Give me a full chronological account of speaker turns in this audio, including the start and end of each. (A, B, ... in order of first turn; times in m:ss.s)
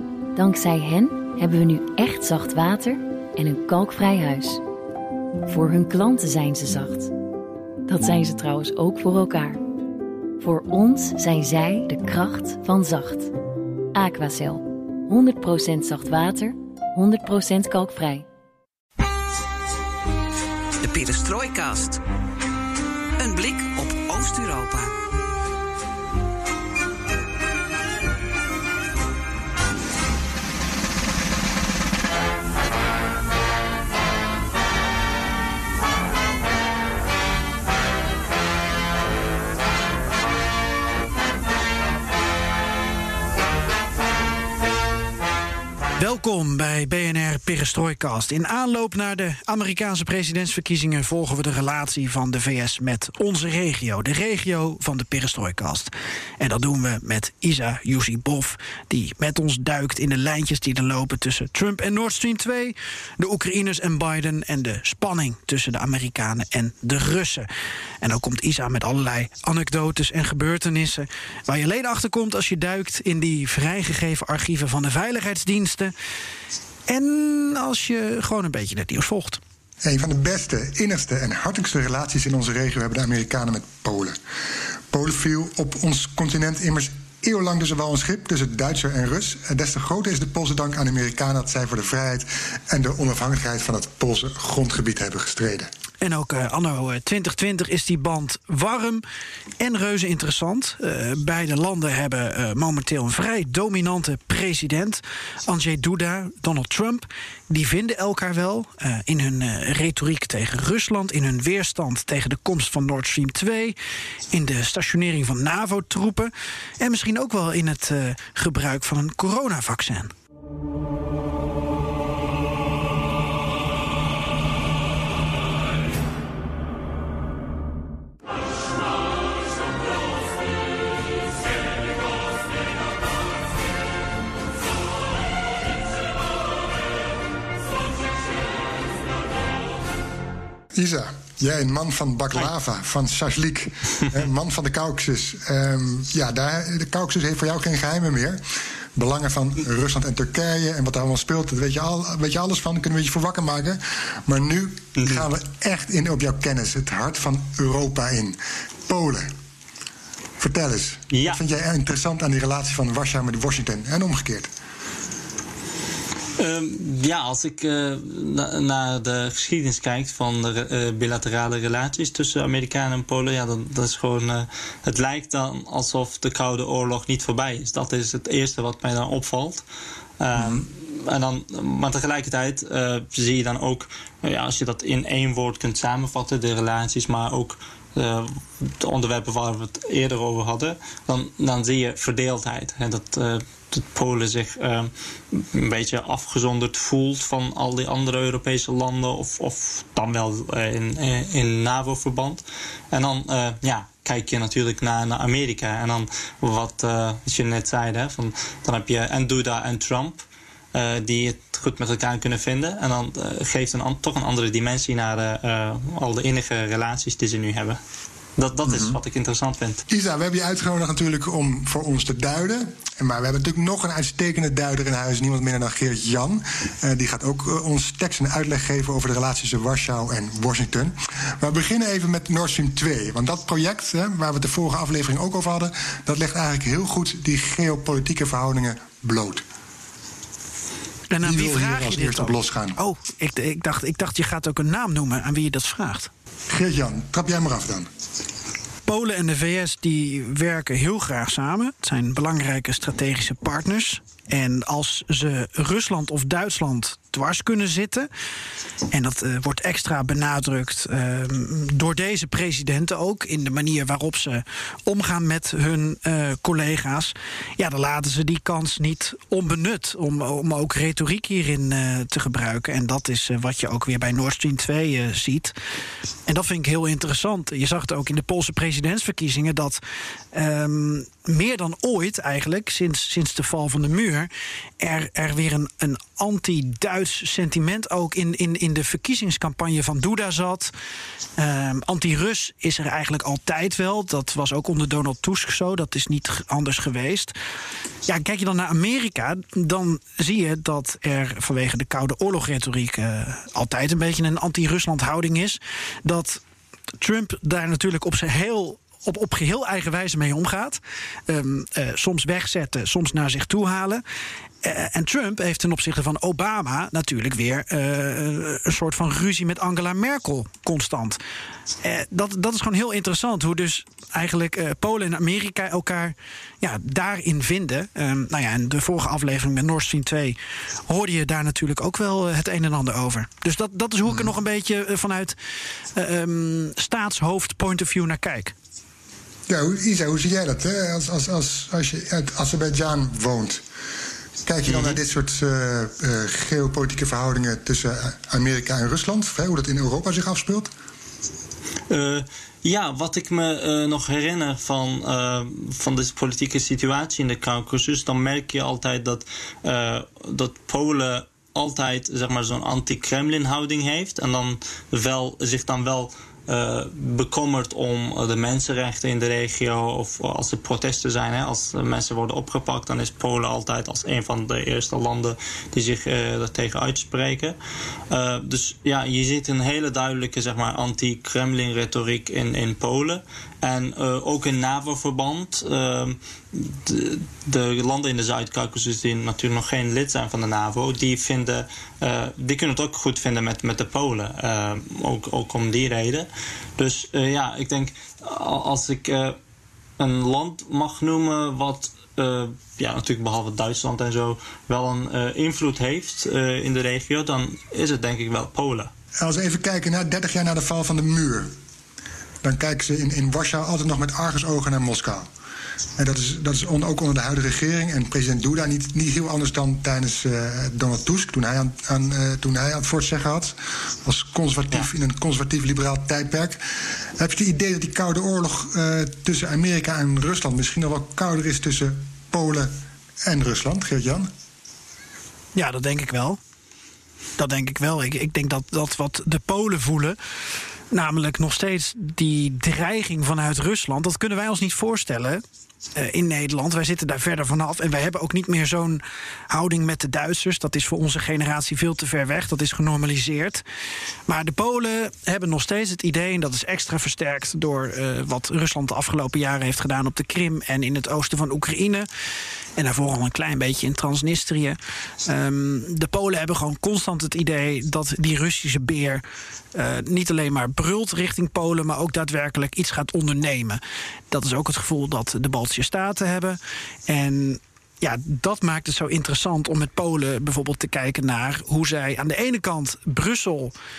0:00.4-0:04.6 A
0:05.5-0:07.1 A
0:07.9-0:09.6 A
0:10.4-0:13.3 A
0:13.9-0:18.3 A
0:20.8-0:22.0 B
0:23.2-0:24.9 B
0:46.0-1:07.5 C
1:08.0-1:15.9 C
1:16.9-1:19.4 C
1:19.8-1:24.2 D
1:24.9-1:35.7 D
1:36.0-1:39.0 C
1:39.6-1:53.8 C
1:54.3-2:00.1 C
2:20.7-2:28.4 D
2:29.0-2:39.3 D
2:35.0-2:35.3 E
2:40.4-2:44.5 D
2:41.1-2:41.4 E
2:46.4-2:59.6 E
3:00.2-3:37.8 E
3:00.4-3:00.6 D
3:38.4-3:39.8 E
3:38.6-3:39.0 D
3:39.9-3:59.4 D
4:01.1-4:06.1 C
4:01.2-4:02.8 D
4:06.5-4:07.9 D
4:08.9-4:18.1 C
4:18.9-4:35.6 C
4:36.3-4:39.8 C
4:40.3-4:50.7 C
4:51.4-4:57.3 C
4:58.1-5:06.4 C
5:07.0-5:14.0 C
5:14.6-5:21.2 C
5:21.8-5:30.4 C
5:30.9-5:35.4 C
5:36.0-5:38.5 C
5:39.5-5:43.6 D
5:44.4-5:50.7 D
5:44.7-5:45.0 E
5:51.9-6:17.6 E
6:18.1-6:39.4 E
6:40.0-6:48.9 E
6:49.2-6:51.5 D
6:52.4-6:55.3 D
6:56.0-7:14.3 D
7:15.6-7:16.4 C
7:17.4-7:20.2 C
7:20.9-7:25.4 C
7:26.0-7:33.6 C
7:34.3-7:42.1 C
7:42.8-7:49.2 C
7:49.7-7:53.8 C
7:54.3-8:03.7 C